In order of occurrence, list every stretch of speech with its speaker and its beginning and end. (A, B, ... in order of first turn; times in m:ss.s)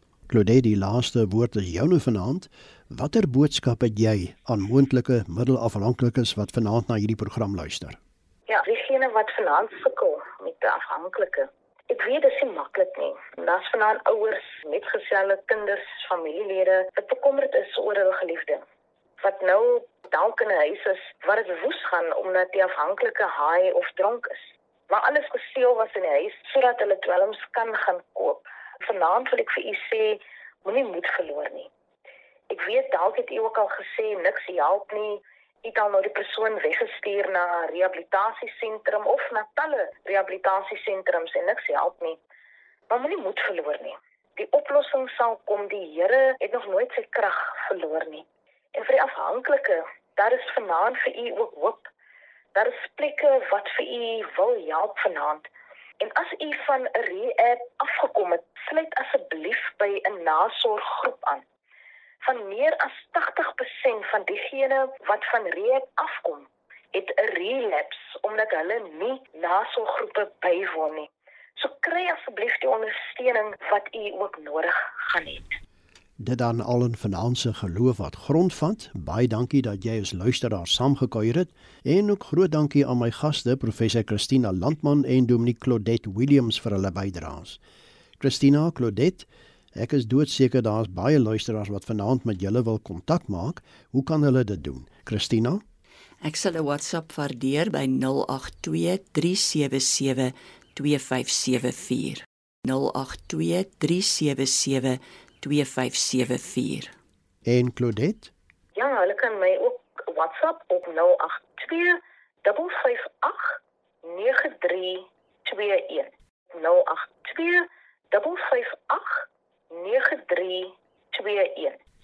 0:00.3-0:08.0 A
0:08.5-0:18.6 B
0:19.2-0:31.7 B
0:32.5-0:42.2 B
0:42.9-0:51.9 B
0:52.6-0:55.5 B
0:56.0-1:01.4 B
1:02.2-1:15.6 B
1:16.2-1:27.6 A
1:28.2-1:35.6 A
1:36.2-1:46.9 C
1:47.5-1:48.3 A
1:48.8-2:01.8 B